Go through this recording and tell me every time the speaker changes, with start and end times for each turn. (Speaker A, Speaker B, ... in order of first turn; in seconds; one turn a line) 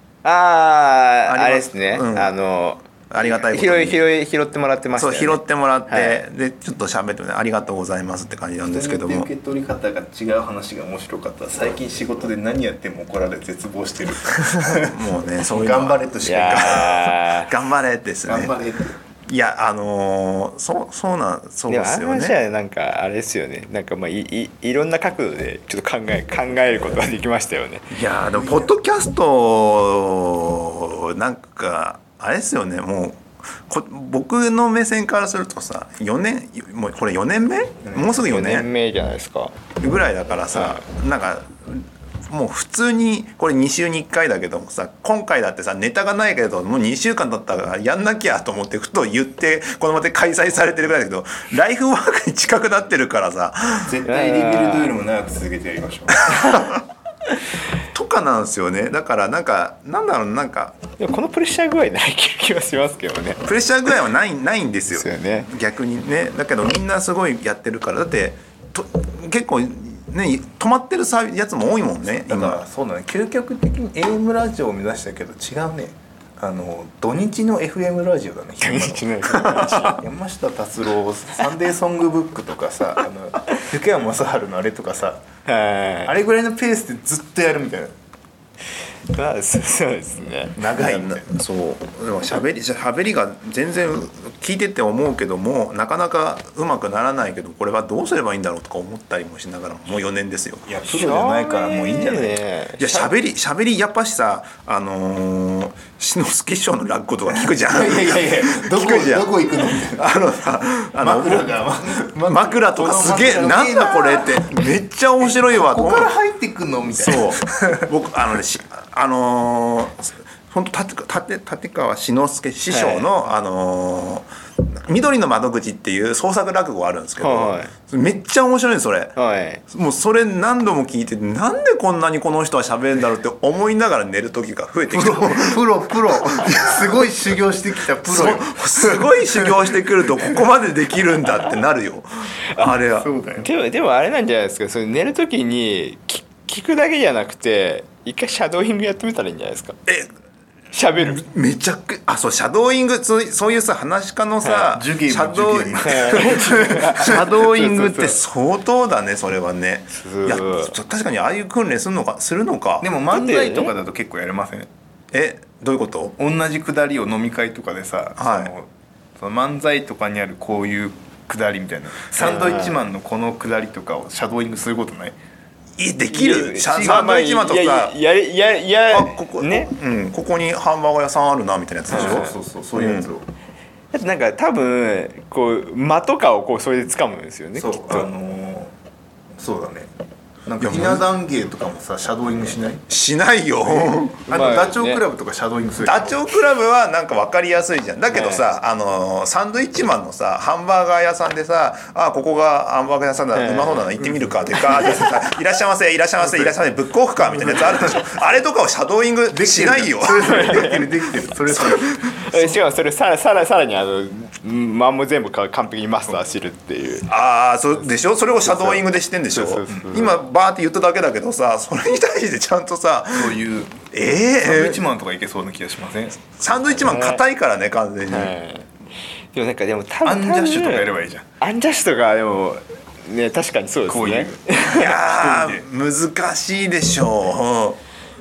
Speaker A: 0.2-6.2
Speaker B: 1.3-2.3
Speaker B: 3.1-4.0
Speaker B: 5.0-9.3
Speaker C: 8.6-16.9
Speaker B: 14.7-18.5
Speaker A: 16.2-17.5
Speaker C: 18.2-19.0
Speaker B: 19.3-22.4
Speaker A: 21.7-27.9
Speaker B: 27.9-38.7
Speaker C: 28.3-28.7
Speaker A: 38.0-39.5
Speaker B: 39.8-54.0
Speaker C: 53.9-56.5
Speaker A: 54.0-54.9
Speaker B: 56.3-56.7
Speaker B: 57.9-60.8
Speaker A: 61.0-63.5
Speaker B: 63.4-72.6
Speaker A: 64.9-65.5
Speaker C: 72.0-85.2
Speaker A: 78.6-80.0
Speaker A: 85.5-86.1
Speaker C: 86.0-87.9
Speaker A: 89.1-90.6
Speaker C: 90.6-91.3
Speaker B: 90.6-100.7
Speaker C: 100.7-102.4
Speaker A: 100.8-103.1
Speaker B: 102.8-116.1
Speaker C: 107.3-110.1
Speaker C: 111.0-114.6
Speaker C: 115.2-117.9
Speaker B: 116.9-129.2
Speaker A: 122.7-123.1
Speaker A: 127.2-127.7
Speaker A: 129.2-129.6
Speaker B: 129.7-136.9
Speaker C: 134.9-140.4
Speaker B: 138.1-143.1
Speaker C: 142.9-143.5
Speaker A: 143.4-149.8
Speaker A: 150.7-151.2
Speaker B: 150.9-162.9
Speaker A: 154.4-154.7
Speaker C: 154.7-157.2
Speaker A: 155.8-158.2
Speaker A: 159.9-160.7
Speaker C: 162.8-164.7
Speaker A: 163.1-163.7
Speaker B: 165.1-166.2
Speaker C: 166.2-175.2
Speaker B: 168.2-168.5
Speaker A: 172.2-172.8
Speaker B: 175.8-177.9
Speaker A: 176.1-179.7
Speaker C: 176.7-177.0
Speaker B: 178.9-183.1
Speaker C: 181.9-183.3
Speaker A: 181.9-182.3
Speaker A: 183.9-188.1
Speaker C: 187.6-188.7
Speaker C: 189.3-189.9
Speaker C: 190.4-192.8
Speaker B: 190.6-191.1
Speaker B: 192.9-194.3
Speaker C: 193.6-196.2
Speaker A: 194.3-195.0
Speaker B: 195.8-210.8
Speaker A: 198.1-198.4
Speaker A: 203.3-203.9
Speaker A: 204.5-205.1
Speaker C: 206.2-206.6
Speaker C: 207.2-208.1
Speaker C: 209.3-211.9
Speaker A: 210.2-210.8
Speaker A: 212.0-217.1
Speaker B: 217.0-224.8
Speaker A: 218.4-220.2
Speaker C: 219.7-220.0
Speaker C: 223.1-223.8
Speaker C: 224.4-226.2
Speaker B: 226.3-228.3
Speaker A: 226.6-227.2
Speaker A: 228.1-228.7
Speaker A: 229.3-230.9
Speaker C: 230.0-231.3
Speaker A: 231.4-234.9
Speaker C: 233.9-235.6
Speaker B: 234.7-237.8